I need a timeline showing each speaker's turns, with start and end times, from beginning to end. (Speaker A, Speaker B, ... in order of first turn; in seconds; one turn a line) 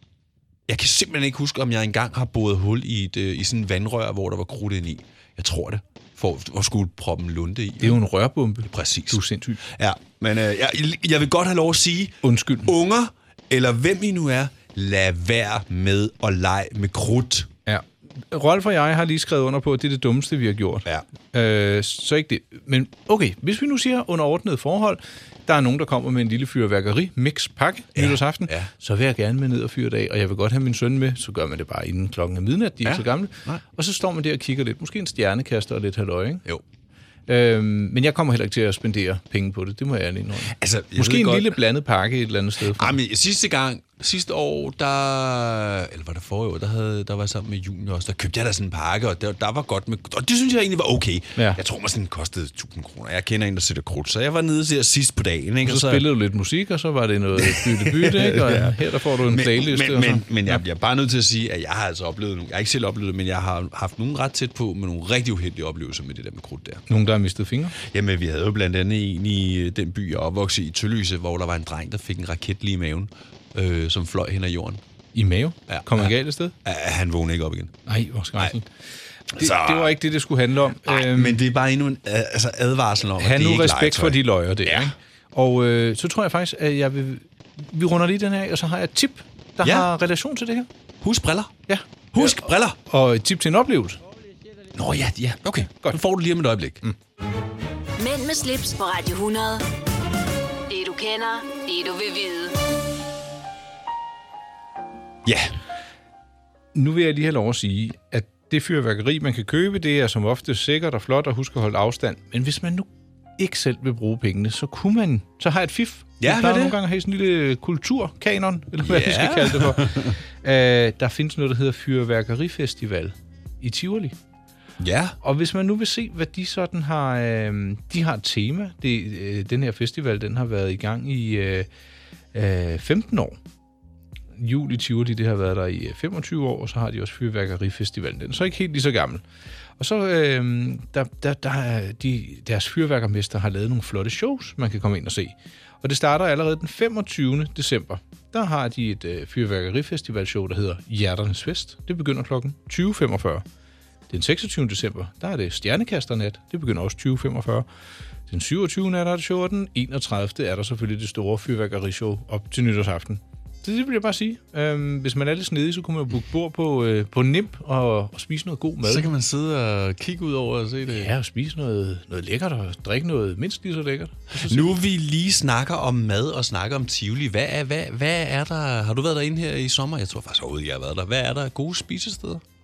Speaker A: 0.7-8.0
Speaker B: 7.8-9.6
Speaker A: 8.7-17.5
Speaker B: 12.2-12.7
Speaker B: 17.7-36.4
Speaker A: 27.9-28.7
Speaker A: 32.8-33.6
Speaker B: 37.3-43.0
Speaker A: 40.5-41.6
Speaker A: 42.7-56.1
Speaker B: 55.6-60.6
Speaker A: 57.4-66.8
Speaker B: 66.9-67.8
Speaker A: 67.8-74.8
Speaker B: 75.1-76.5
Speaker A: 75.7-77.8
Speaker B: 77.9-78.7
Speaker B: 79.3-81.4
Speaker A: 79.3-80.0
Speaker A: 80.9-84.9
Speaker B: 83.2-90.7
Speaker A: 89.6-89.9
Speaker A: 91.0-91.5
Speaker B: 91.7-94.0
Speaker A: 92.1-92.8
Speaker A: 94.7-96.8
Speaker B: 95.8-96.0
Speaker C: 98.0-99.7
Speaker C: 100.7-102.6
Speaker A: 105.2-105.5
Speaker B: 106.7-124.2
Speaker A: 116.2-116.8
Speaker A: 118.8-120.2
Speaker A: 124.8-125.2
Speaker B: 125.2-131.7
Speaker B: 132.3-133.4
Speaker B: 134.4-139.2
Speaker B: 139.8-153.4
Speaker B: 154.1-157.7
Speaker B: 158.3-169.1
Speaker A: 168.8-171.1
Speaker B: 170.9-174.7
Speaker A: 174.4-182.4